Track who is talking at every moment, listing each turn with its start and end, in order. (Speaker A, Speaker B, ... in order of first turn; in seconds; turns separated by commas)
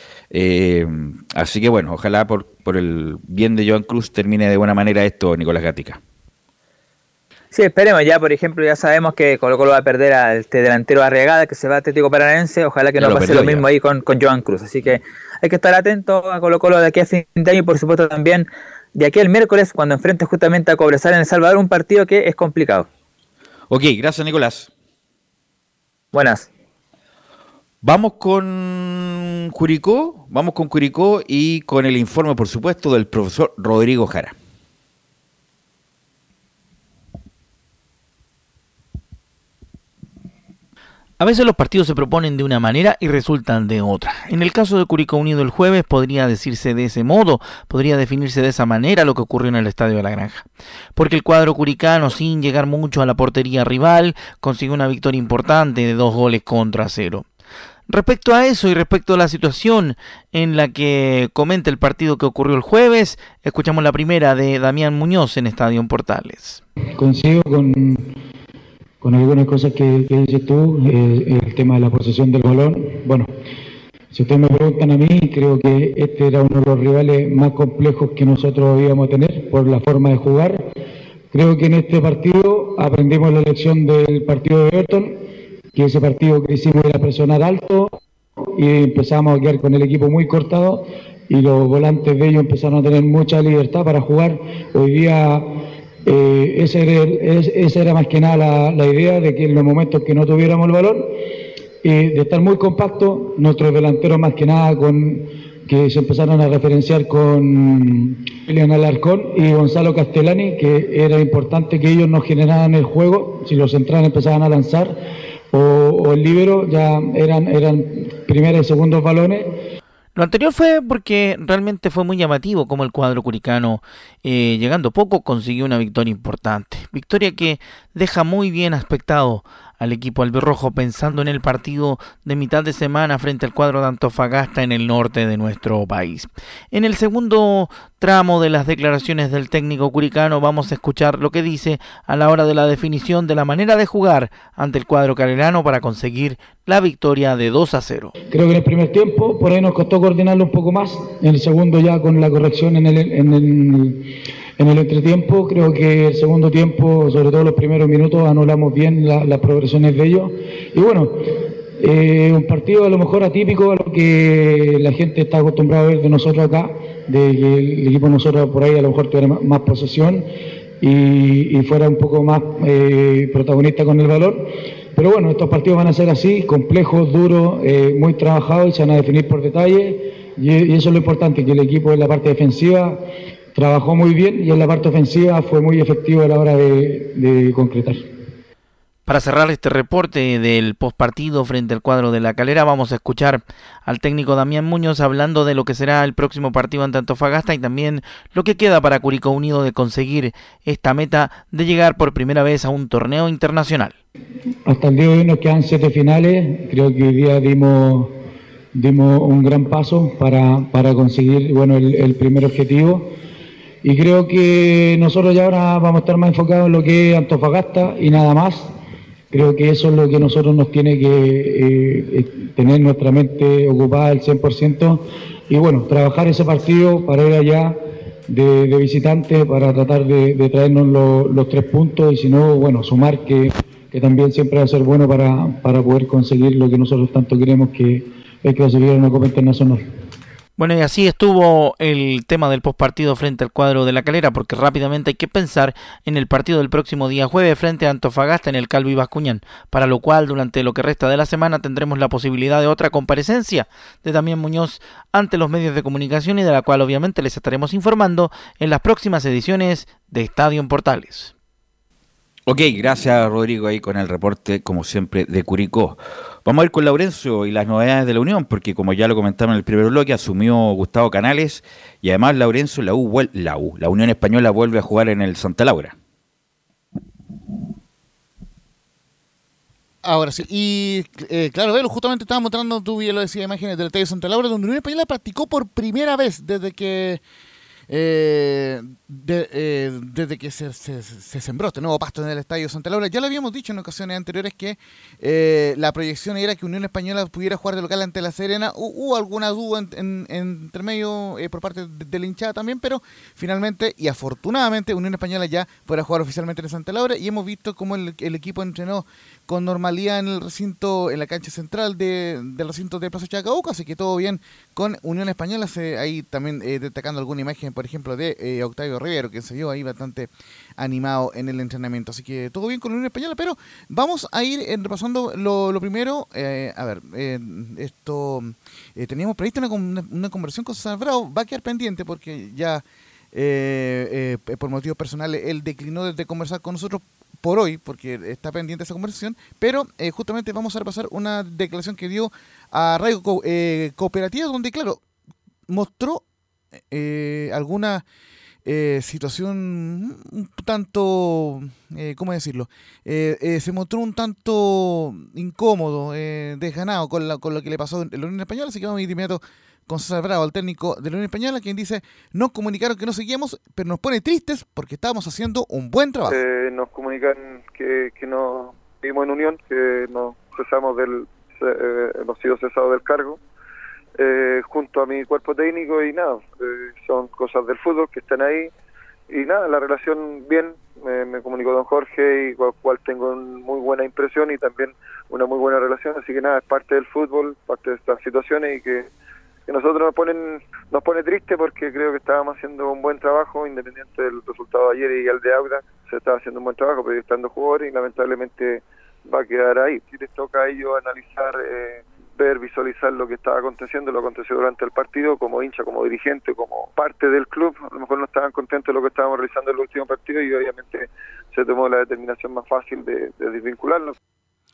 Speaker A: 0.3-6.0, Speaker B: 7.5-22.9, Speaker A: 13.0-13.7, Speaker A: 23.7-24.7, Speaker B: 26.1-26.5, Speaker A: 27.8-34.3, Speaker C: 41.2-57.2, Speaker C: 57.9-66.6, Speaker D: 67.0-68.1, Speaker D: 69.0-73.3, Speaker D: 74.1-80.7, Speaker D: 81.3-85.2, Speaker D: 85.7-87.9, Speaker D: 88.5-95.5, Speaker D: 96.0-101.1, Speaker D: 101.8-114.9, Speaker D: 115.5-119.5, Speaker C: 120.2-148.1, Speaker D: 148.3-170.3, Speaker D: 170.8-183.0, Speaker D: 183.5-188.1, Speaker C: 189.1-203.9, Speaker D: 204.7-208.2, Speaker D: 208.7-213.1, Speaker D: 213.8-218.7, Speaker D: 219.3-227.8, Speaker D: 228.3-239.8, Speaker C: 240.6-261.3, Speaker A: 262.5-275.9, Speaker E: 280.0-287.2, Speaker E: 287.9-345.0, Speaker E: 345.7-346.2, Speaker E: 346.9-348.0, Speaker E: 348.6-366.4, Speaker F: 366.3-373.4, Speaker F: 374.2-378.7, Speaker F: 379.3-389.1, Speaker F: 389.7-414.1